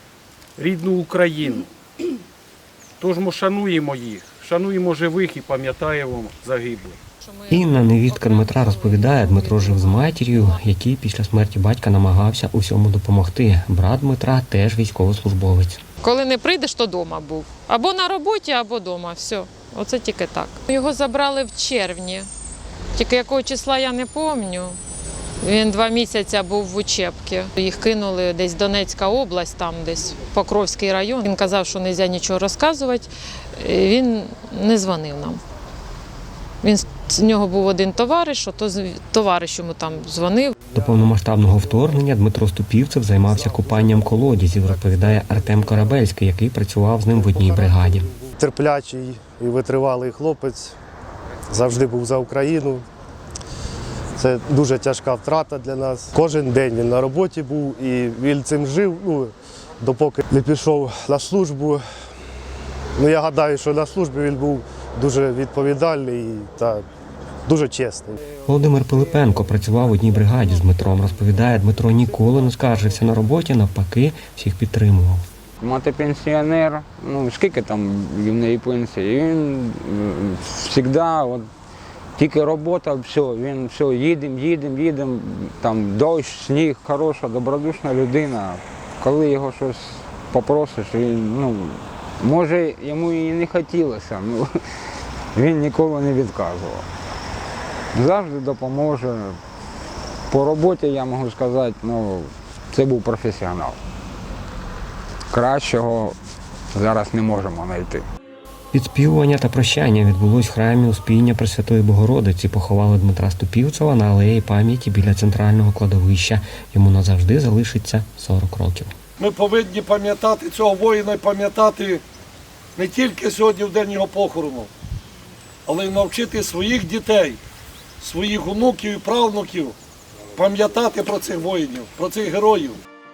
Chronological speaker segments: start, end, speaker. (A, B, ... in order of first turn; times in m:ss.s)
0:00.6-0:01.7 A
0:03.0-0:07.0 A
0:07.2-0:10.6 B
0:07.5-0:15.8 C
0:16.0-0:22.3 B
0:22.9-0:24.8 B
0:25.4-0:35.4 B
0:36.6-0:40.5 B
0:40.7-0:48.1 C
0:47.1-0:50.7 D
0:51.5-0:52.8 D
0:54.2-1:01.8 D
1:03.0-1:06.8 D
1:07.4-1:08.2 D
1:08.4-1:15.2 C
1:15.6-1:21.5 E
1:22.2-1:36.9 E
1:37.9-1:39.4 E
1:40.3-1:43.8 E
1:45.3-1:46.2 E
1:46.7-1:48.0 E
1:48.7-1:58.9 C
1:59.2-2:02.0 F
2:02.8-2:04.7 F
2:05.6-2:07.4 F
2:08.0-2:09.8 F
2:10.3-2:12.8 F